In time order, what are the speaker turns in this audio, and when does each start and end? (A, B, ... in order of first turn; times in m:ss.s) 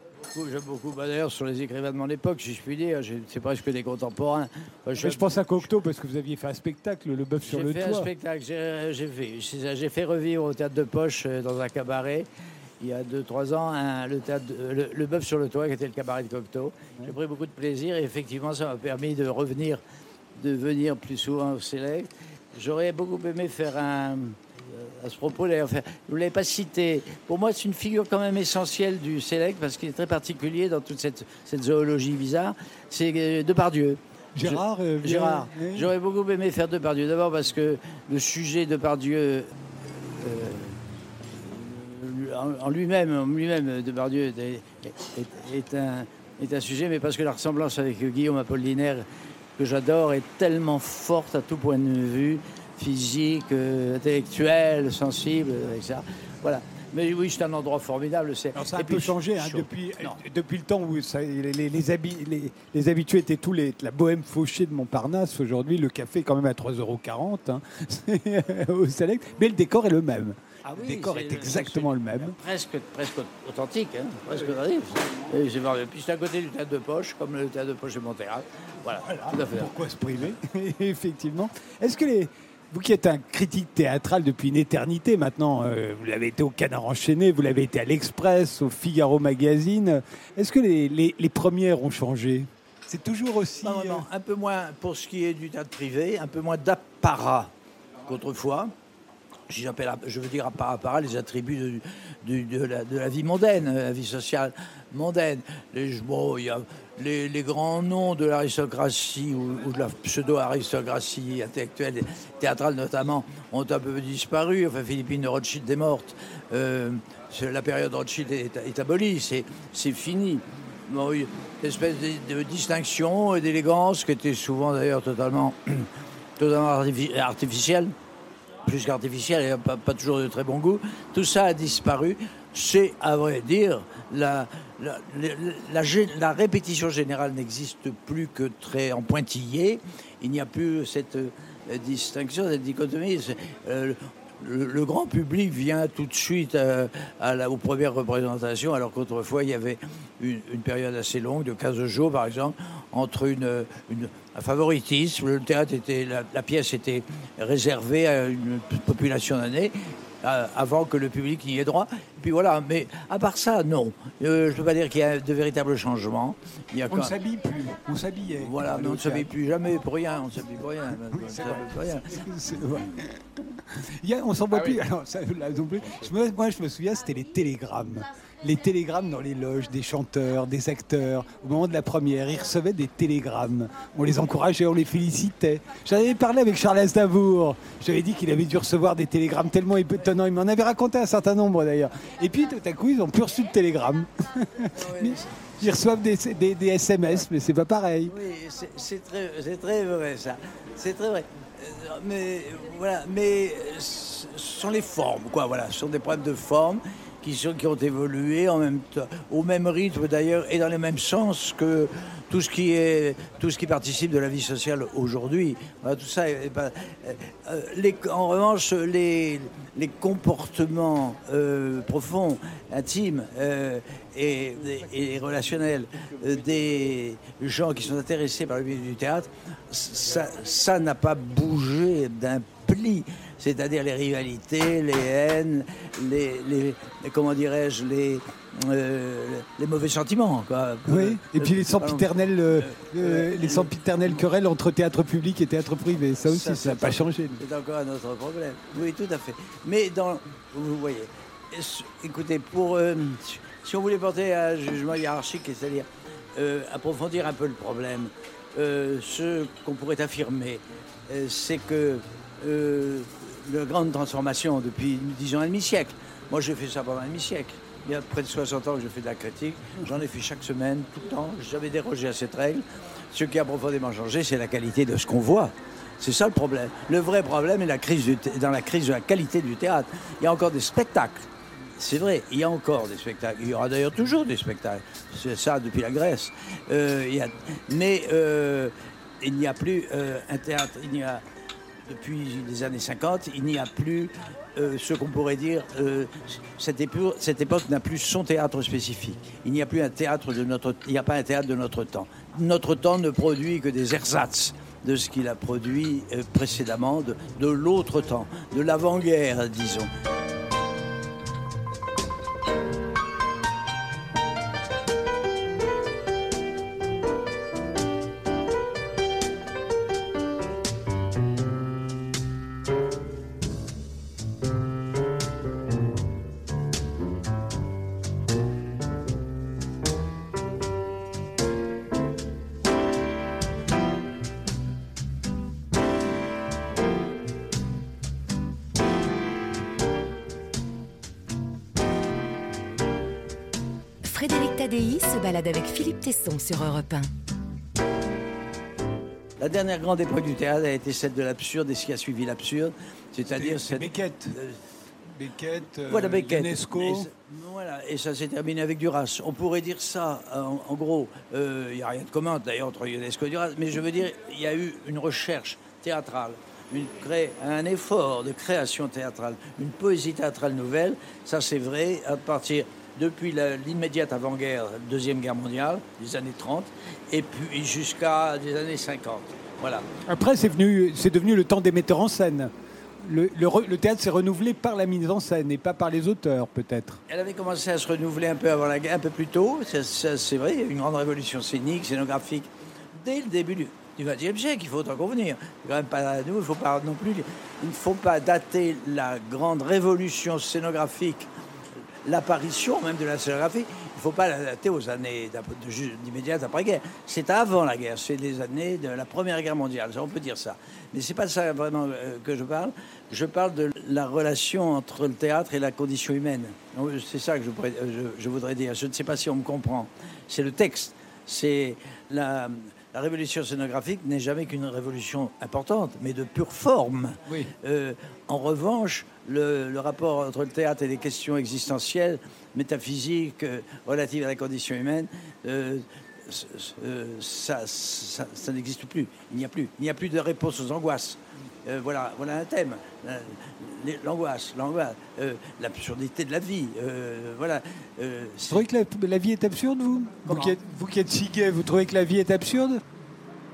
0:00.3-0:05.6 A
0:05.0-0:08.1 B
0:07.4-0:12.3 A
0:12.8-0:19.8 A
0:20.4-0:49.0 A
0:34.4-0:35.9 B
0:49.6-1:00.2 A
0:58.5-1:12.4 B
1:10.6-1:19.7 A
1:19.3-1:34.1 B
1:33.6-1:37.5 A
1:38.0-1:38.7 A
1:39.5-2:07.9 A
2:08.6-2:47.2 A
2:46.9-2:49.3 B
2:48.4-2:52.3 A
2:51.2-3:18.1 B
2:54.5-2:54.8 A
3:14.7-3:15.7 A
3:18.1-4:04.2 A
4:00.9-4:07.4 B
4:06.0-4:51.2 A
4:51.8-5:09.9 A
5:44.0-5:47.1 C
5:49.4-5:54.6 A
5:53.3-5:54.4 B
5:55.2-5:57.1 B
5:55.9-6:19.9 A
6:20.0-6:27.0 B
6:27.1-6:41.3 A
6:42.0-7:28.7 A
7:07.3-7:07.5 B
7:28.5-7:32.8 B
7:30.2-7:30.6 A